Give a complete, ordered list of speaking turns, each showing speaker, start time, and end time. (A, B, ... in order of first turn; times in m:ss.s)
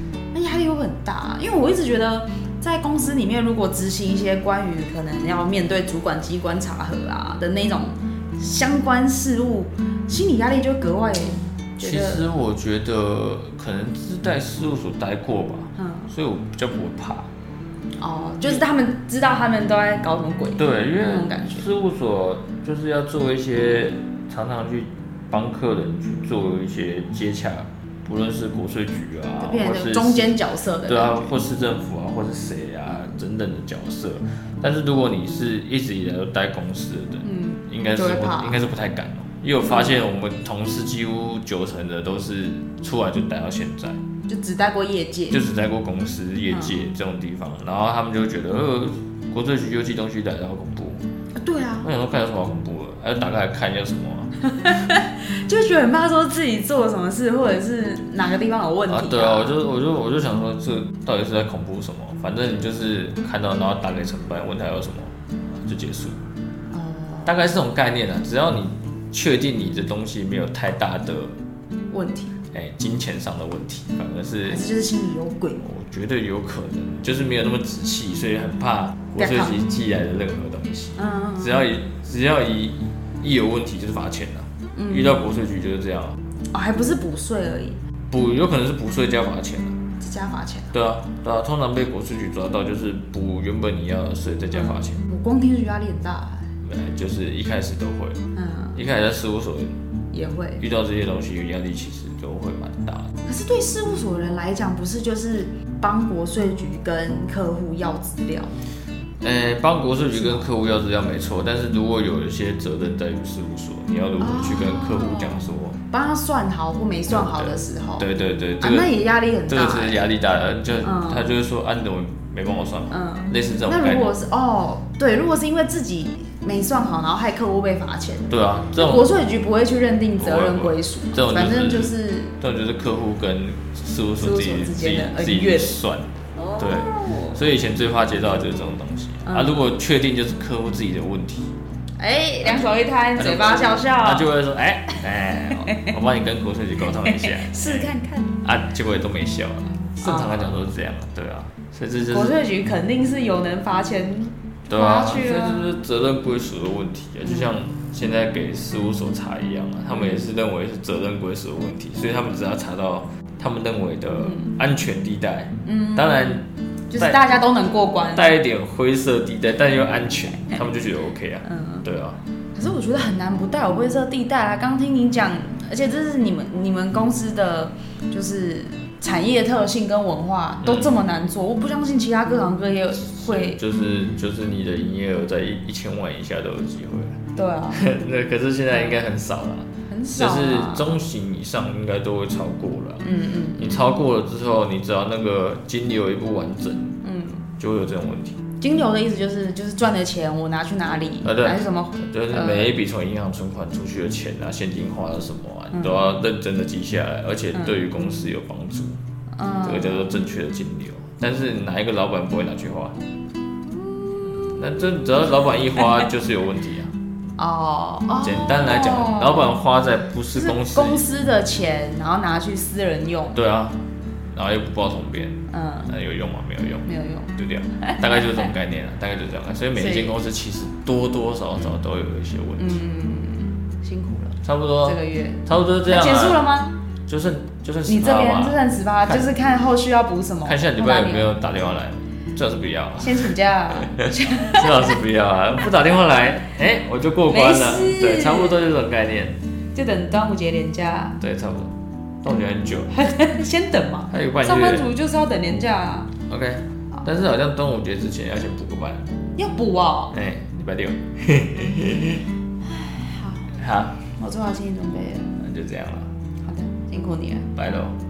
0:00.3-0:12.2 A
0:11.8-0:17.3 B
0:15.8-0:16.1 A
0:18.0-0:21.6 A
0:20.6-0:30.4 B
0:29.4-0:31.2 A
0:30.9-0:44.0 B
0:37.2-0:38.6 A
0:39.6-0:40.0 A
0:44.3-0:45.4 A
0:45.3-0:51.0 B
0:46.5-0:46.8 A
0:51.4-0:51.9 A
0:51.8-0:54.3 B
0:54.4-0:59.6 A
0:58.9-1:06.2 B
1:06.7-1:07.4 A
1:07.2-1:11.4 B
1:11.9-1:12.4 A
1:12.5-1:14.6 B
1:14.5-1:15.6 A
1:15.6-1:26.2 B
1:19.2-1:19.6 A
1:21.0-1:21.6 A
1:24.7-1:25.2 A
1:26.5-1:27.8 A
1:28.1-1:29.8 B
1:30.0-1:30.7 A
1:30.7-1:35.0 B
1:34.5-1:36.5 A
1:36.6-1:38.2 B
1:38.3-1:38.8 A
1:38.7-1:39.7 B
1:40.1-1:40.6 A
1:40.6-1:43.1 B
1:43.2-1:48.6 A
1:49.2-1:55.8 B
1:50.1-1:50.5 A
1:54.2-1:58.1 A
1:57.1-1:58.9 B
1:58.6-2:00.0 A
1:59.5-2:04.1 B
2:00.8-2:01.3 A
2:02.9-2:12.3 A
2:08.3-2:09.1 B
2:10.2-2:21.5 B
2:14.2-2:15.7 A
2:16.3-2:17.4 A
2:19.2-2:19.6 A
2:22.0-2:24.3 A
2:22.4-2:27.9 B
2:25.6-2:26.0 A
2:26.9-2:28.4 A
2:28.4-2:32.3 B
2:30.0-2:30.6 A
2:32.1-2:35.7 A
2:34.7-2:46.5 B
2:37.2-2:37.5 A
2:39.9-2:40.3 A
2:44.2-2:44.5 A
2:45.6-2:46.4 A
2:46.9-2:48.3 A
2:47.0-2:47.2 B
2:48.1-2:52.2 B
2:51.4-2:51.8 A
2:52.5-3:03.6 A
3:00.6-3:00.9 B
3:03.0-3:17.0 B
3:07.3-3:07.8 A
3:08.7-3:09.0 A
3:09.9-3:11.0 A
3:13.0-3:13.8 A
3:17.0-3:17.4 A
3:17.6-3:18.4 B
3:18.6-3:22.7 A
3:21.2-3:29.0 B
3:29.3-3:30.1 A
3:29.6-3:32.9 B
3:33.7-3:34.7 A
3:34.4-3:36.9 B
3:35.8-3:36.0 A
3:37.4-3:39.6 A
3:38.2-3:41.0 B
3:40.3-3:43.4 A
3:43.3-3:43.8 B
3:44.3-3:52.8 B
3:45.5-3:45.9 A
3:46.8-3:48.5 A
3:49.8-3:50.1 A
3:52.6-3:56.7 A
3:54.4-3:56.4 B
3:57.1-3:59.3 B
3:57.8-4:01.3 A
4:00.4-4:09.4 B
4:03.0-4:05.0 A
4:07.3-4:08.6 A
4:09.7-4:11.2 A
4:11.2-4:11.7 B
4:12.2-4:12.9 B
4:12.9-4:16.1 A
4:14.1-4:14.9 B
4:16.3-4:19.0 B
4:19.4-4:20.1 A
4:20.1-4:22.2 B
4:22.6-4:23.6 A
4:23.6-4:24.0 B
4:24.2-4:25.3 A
4:25.4-4:26.1 B
4:26.4-4:27.5 A
4:27.6-4:28.0 B